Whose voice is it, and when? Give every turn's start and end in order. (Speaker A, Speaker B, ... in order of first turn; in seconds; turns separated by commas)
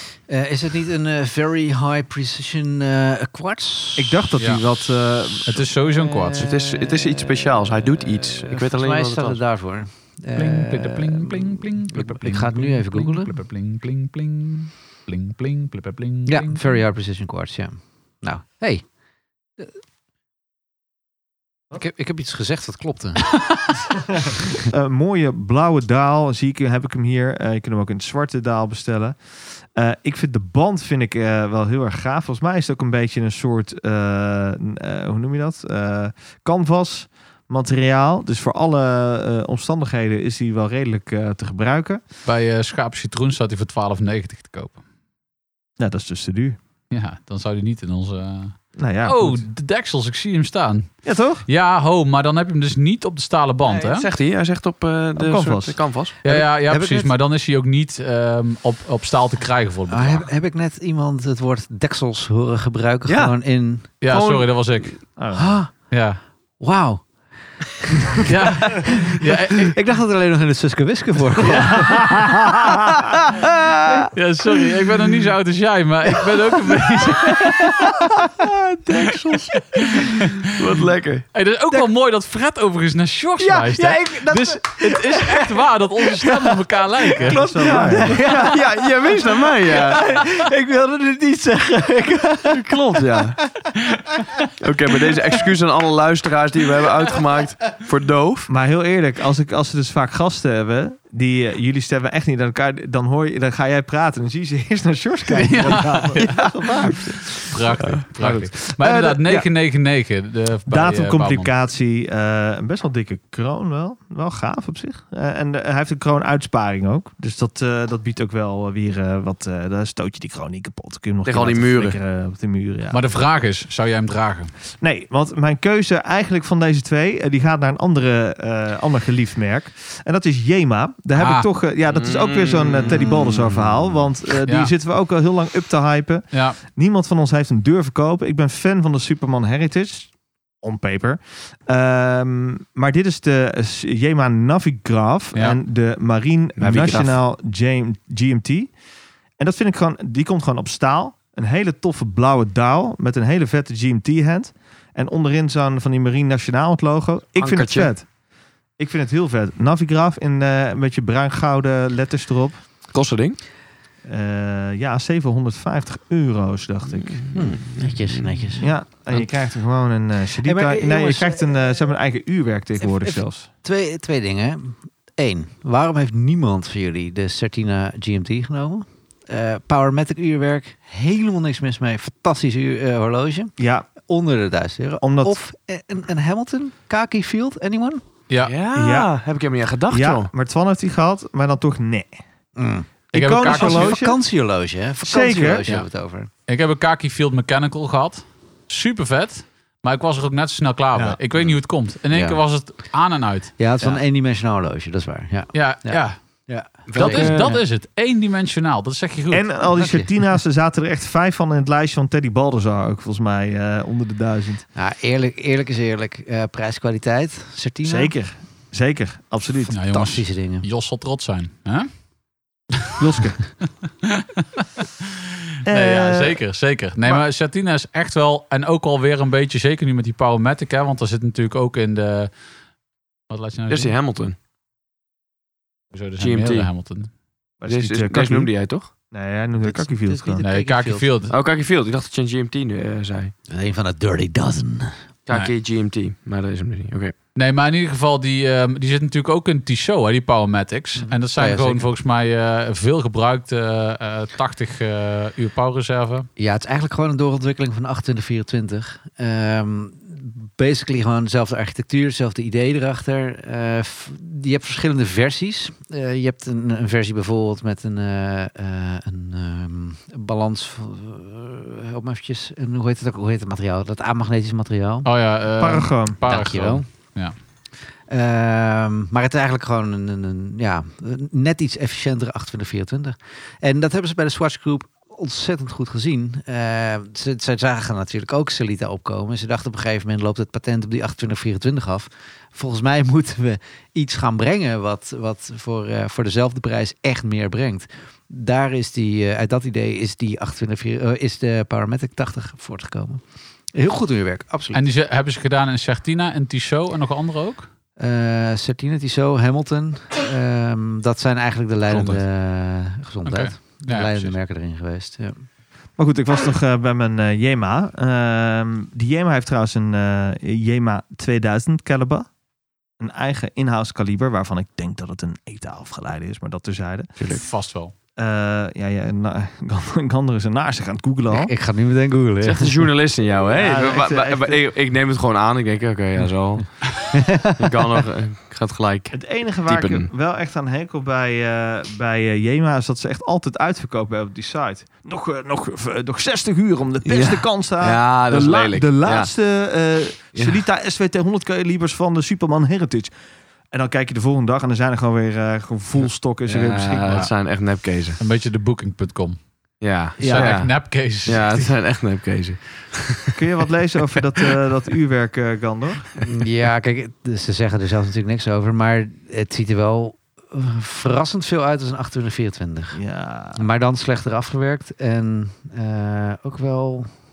Speaker A: 0.3-4.2, Speaker B: 4.0-5.7, Speaker C: 4.4-4.6, Speaker C: 5.5-6.5, Speaker A: 6.0-13.4, Speaker D: 6.3-9.4, Speaker C: 10.3-16.8, Speaker A: 16.2-18.8, Speaker A: 21.7-23.3, Speaker B: 24.1-42.0, Speaker C: 42.2-44.8, Speaker B: 45.8-46.6, Speaker C: 46.9-54.1, Speaker B: 48.8-49.4, Speaker B: 51.0-51.5, Speaker D: 53.7-56.1, Speaker B: 55.1-55.8, Speaker A: 56.2-57.1, Speaker C: 56.2-60.3, Speaker A: 59.9-63.9, Speaker D: 63.1-63.3, Speaker C: 64.0-65.0, Speaker D: 64.1-64.5, Speaker B: 65.2-65.5, Speaker A: 65.3-65.7, Speaker C: 65.9-66.2, Speaker A: 66.6-67.0, Speaker A: 67.9-74.1, Speaker C: 68.2-69.8, Speaker B: 71.7-73.0, Speaker C: 74.1-77.9, Speaker A: 76.6-78.3, Speaker D: 78.4-79.7, Speaker C: 79.8-80.4, Speaker D: 80.5-81.2, Speaker C: 81.3-87.4, Speaker A: 83.4-85.5, Speaker A: 86.2-86.5, Speaker A: 87.2-92.6, Speaker B: 87.2-88.2, Speaker D: 87.6-90.0, Speaker D: 92.5-93.3, Speaker B: 92.9-93.3, Speaker D: 94.6-98.5, Speaker B: 98.5-109.5, Speaker C: 105.3-106.5, Speaker D: 106.2-106.5, Speaker C: 107.3-111.5, Speaker D: 107.8-108.0, Speaker B: 110.7-123.0, Speaker D: 121.2-122.0, Speaker C: 122.9-124.5, Speaker B: 124.8-148.7, Speaker C: 131.2-131.5, Speaker D: 131.9-133.8, Speaker C: 134.4-134.7, Speaker C: 136.3-136.6, Speaker D: 146.6-147.2, Speaker B: 149.4-158.1, Speaker D: 157.4-157.9, Speaker B: 158.8-162.6, Speaker D: 162.9-163.4, Speaker B: 164.0-167.2, Speaker D: 167.0-168.5, Speaker A: 167.3-168.7, Speaker B: 168.6-173.5, Speaker A: 170.4-171.5, Speaker A: 172.8-188.0, Speaker B: 183.6-183.9, Speaker B: 185.0-185.3, Speaker C: 188.3-188.5, Speaker D: 188.4-190.3, Speaker B: 188.7-189.1, Speaker B: 189.9-192.2, Speaker A: 192.6-192.9, Speaker B: 193.1-194.2, Speaker C: 193.1-194.0, Speaker A: 193.4-196.3, Speaker B: 195.0-195.6, Speaker C: 196.5-203.9, Speaker B: 200.9-201.2, Speaker A: 202.1-202.4, Speaker A: 203.6-207.6, Speaker C: 205.5-206.2, Speaker D: 206.9-207.6, Speaker C: 206.9-209.5, Speaker B: 209.3-214.6, Speaker A: 209.8-210.1, Speaker A: 214.8-218.1, Speaker B: 217.8-219.7, Speaker C: 219.7-221.9, Speaker A: 219.9-220.7, Speaker B: 223.0-223.4, Speaker C: 224.0-224.8, Speaker C: 225.6-232.3, Speaker B: 225.7-226.4, Speaker C: 233.3-233.9, Speaker D: 233.7-234.3, Speaker C: 235.9-237.1, Speaker D: 236.2-236.7, Speaker B: 237.6-238.5, Speaker D: 237.7-238.9, Speaker B: 239.1-240.4, Speaker A: 239.6-241.1, Speaker C: 240.4-241.3, Speaker D: 241.3-243.3, Speaker A: 243.5-244.9, Speaker D: 245.2-247.1, Speaker C: 247.3-256.3, Speaker A: 251.0-251.9, Speaker A: 256.4-275.1, Speaker C: 275.0-277.3, Speaker B: 275.6-276.2, Speaker A: 276.2-276.8, Speaker A: 278.1-303.2, Speaker A: 303.7-304.8, Speaker C: 304.7-307.7, Speaker A: 308.0-315.4, Speaker C: 313.2-314.3, Speaker B: 316.0-322.3, Speaker B: 323.0-327.1, Speaker C: 327.3-327.9, Speaker B: 328.2-331.5, Speaker A: 331.3-332.8, Speaker D: 332.4-336.9, Speaker B: 333.5-334.7, Speaker A: 337.1-337.8, Speaker D: 337.6-340.1, Speaker B: 339.1-353.1, Speaker D: 347.1-349.3, Speaker D: 350.3-350.6, Speaker B: 353.7-357.3, Speaker D: 356.4-358.2, Speaker C: 358.2-359.4, Speaker D: 359.8-363.4, Speaker C: 360.2-361.7, Speaker B: 360.2-360.7, Speaker B: 363.3-366.1, Speaker A: 366.3-373.0, Speaker B: 372.9-373.6, Speaker A: 373.5-377.1